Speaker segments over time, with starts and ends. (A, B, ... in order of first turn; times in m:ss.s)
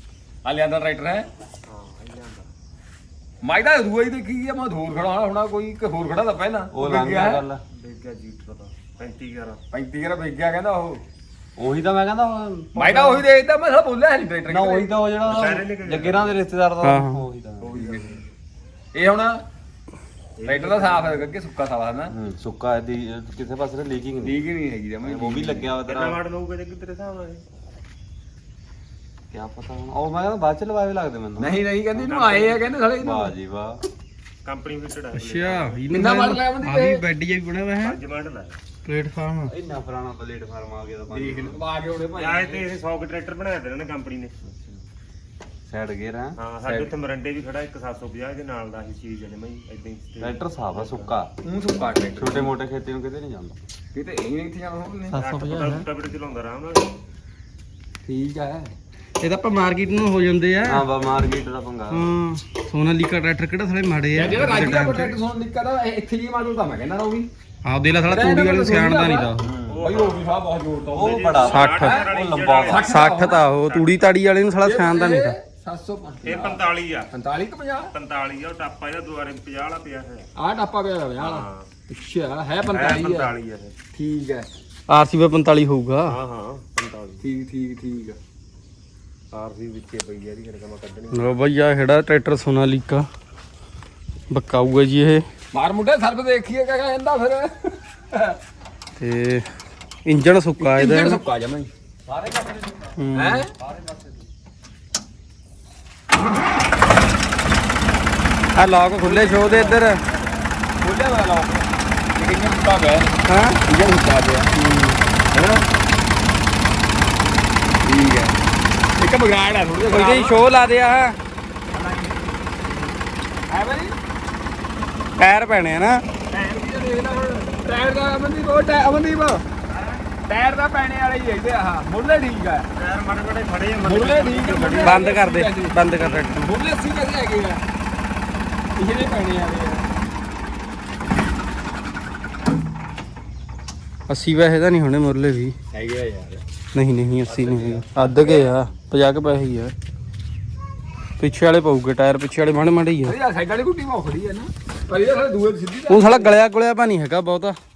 0:00.4-0:01.3 A
0:01.7-0:02.5 B
0:03.4-0:07.5 A
0:06.7-0:07.6 C
0:07.7-0:09.6 B
0:09.7-0:11.0 A
0:11.6-0:13.2 C
0:12.7-0:15.0 A
0:14.5-0:18.2 C
0:15.2-0:16.4 B
0:16.8-0:17.2 D
0:17.6-0:18.2 A
0:18.9-0:19.4 A
0:20.4-0:21.3 B
0:20.4-0:22.3 A
0:22.1-0:24.4 C
0:24.2-0:25.7 A
0:25.0-0:26.2 C
0:25.8-0:27.4 B
0:29.3-0:31.6 C
0:31.4-0:33.3 A
0:32.0-0:32.6 B
0:33.0-0:33.8 C
0:34.4-0:35.8 B
0:35.2-0:38.0 D
0:35.9-0:37.0 A
0:37.8-0:38.6 B
0:38.8-0:39.5 D
0:39.5-0:41.6 C
0:41.1-0:42.6 A
0:42.1-0:44.4 B
0:45.7-0:46.9 C
0:46.4-0:51.1 B
0:50.2-0:51.3 C
0:51.4-0:52.6 A
0:52.2-0:53.6 C
0:53.9-0:55.2 A
0:55.2-0:56.9 B
0:55.2-0:55.8 D
0:58.0-0:58.7 A
0:59.2-1:00.8 D
1:00.7-1:02.1 C
1:01.9-1:05.2 D
1:04.2-1:07.3 A
1:07.7-1:09.4 D
1:08.1-1:13.4 A
1:09.4-1:09.8 C
1:09.7-1:10.3 B
1:11.0-1:12.9 C
1:11.0-1:14.1 B
1:11.5-1:11.9 D
1:12.8-1:15.4 D
1:14.6-1:17.9 A
1:16.2-1:17.1 B
1:17.9-1:20.3 B
1:20.4-1:23.3 A
1:21.2-1:21.7 B
1:22.7-1:23.7 B
1:23.9-1:24.5 A
1:24.9-1:26.2 D
1:26.1-1:27.2 B
1:27.2-1:28.2 A
1:29.3-1:31.4 B
1:31.1-1:33.1 D
1:34.3-1:35.2 D
1:35.5-1:38.4 A
1:39.0-1:39.5 D
1:40.0-1:41.2 D
1:40.6-1:41.7 A
1:42.1-1:43.0 C
1:43.0-1:43.4 D
1:43.1-1:43.5 A
1:48.6-1:50.0 D
1:49.0-1:54.5 A
1:53.2-1:53.6 D
1:54.6-1:55.0 D
1:55.3-1:55.6 A
1:57.8-1:58.4 A
1:59.0-2:00.4 A
1:59.9-2:01.2 D
2:01.7-2:02.5 A
2:03.5-2:03.9 A
2:05.2-2:06.0 D
2:06.3-2:09.4 A
2:09.7-2:10.0 B
2:10.3-2:12.7 A
2:12.7-2:15.1 B
2:13.8-2:15.8 A
2:14.8-2:16.5 D
2:15.9-2:16.4 B
2:16.4-2:17.6 A
2:18.8-2:19.9 A
2:24.1-2:25.6 D
2:25.7-2:26.4 A
2:26.7-2:29.7 D
2:27.3-2:28.5 A
2:31.2-2:33.2 D
2:33.0-2:36.4 A
2:35.9-2:37.6 D